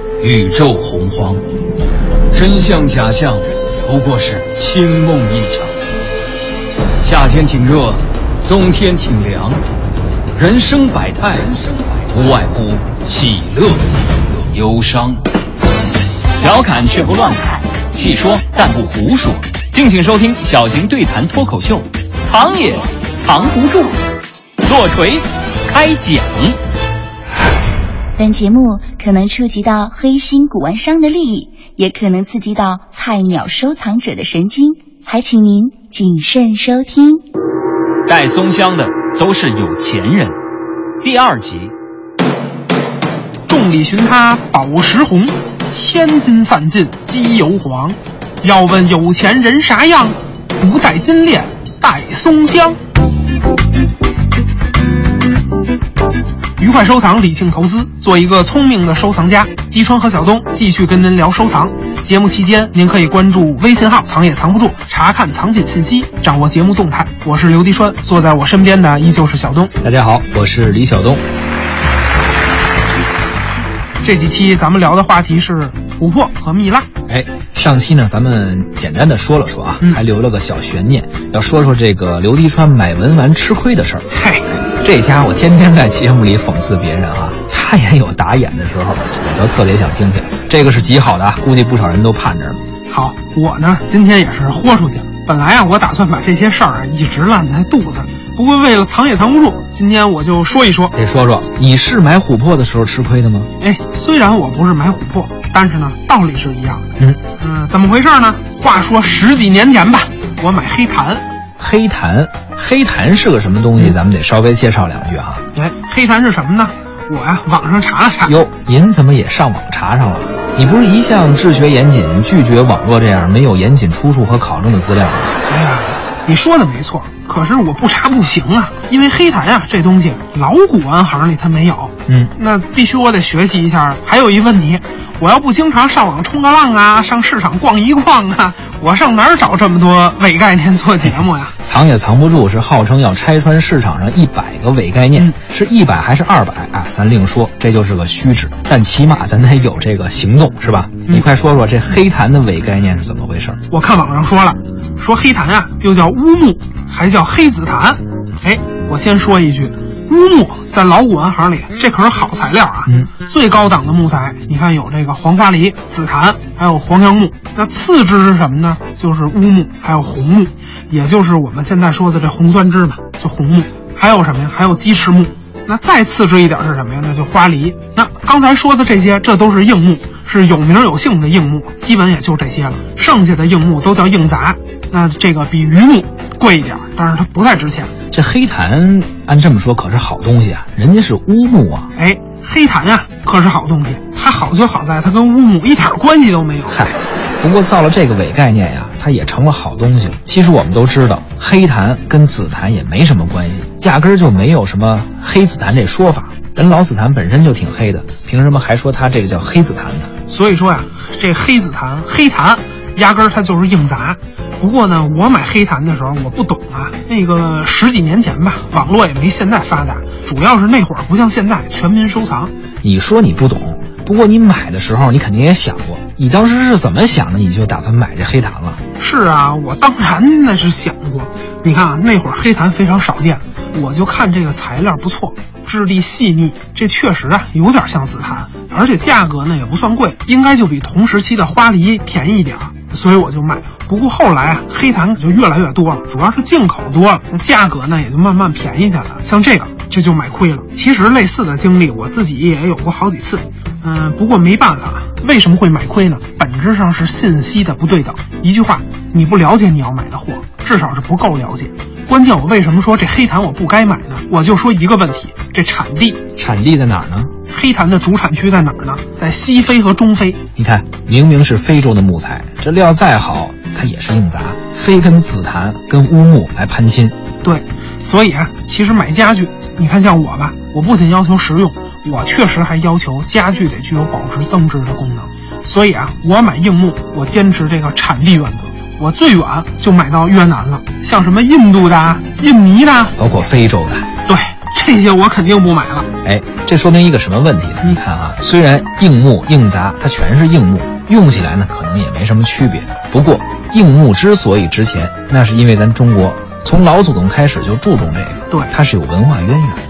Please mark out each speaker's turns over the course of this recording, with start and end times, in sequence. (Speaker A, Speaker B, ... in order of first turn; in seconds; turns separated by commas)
Speaker A: 0.2-1.4, Speaker A: 2.3-5.8, Speaker A: 7.0-9.6, Speaker A: 10.3-15.2, Speaker B: 16.4-24.0, Speaker B: 24.6-26.6, Speaker C: 28.2-37.2, Speaker B: 38.1-40.4, Speaker B: 41.0-41.7, Speaker D: 43.5-52.8, Speaker D: 56.6-69.7, Speaker E: 69.8-71.2, Speaker D: 74.0-76.9, Speaker E: 77.1-92.6, Speaker D: 84.1-84.5, Speaker D: 92.9-100.9, Speaker E: 100.9-103.5, Speaker D: 103.6-111.2, Speaker E: 111.6-115.4, Speaker D: 115.5-118.3, Speaker E: 118.2-125.3, Speaker D: 125.5-141.5, Speaker E: 132.1-132.3, Speaker E: 141.6-153.6, Speaker D: 153.7-187.9, Speaker E: 188.1-191.9, Speaker D: 191.9-196.8, Speaker E: 196.7-210.1, Speaker D: 210.3-222.5, Speaker E: 222.8-228.8, Speaker D: 229.0-266.2, Speaker E: 266.4-267.3, Speaker D: 267.5-270.4, Speaker E: 270.6-277.1, Speaker D: 277.4-293.1, Speaker E: 293.2-294.1, Speaker D: 294.2-296.1, Speaker E: 296.2-309.8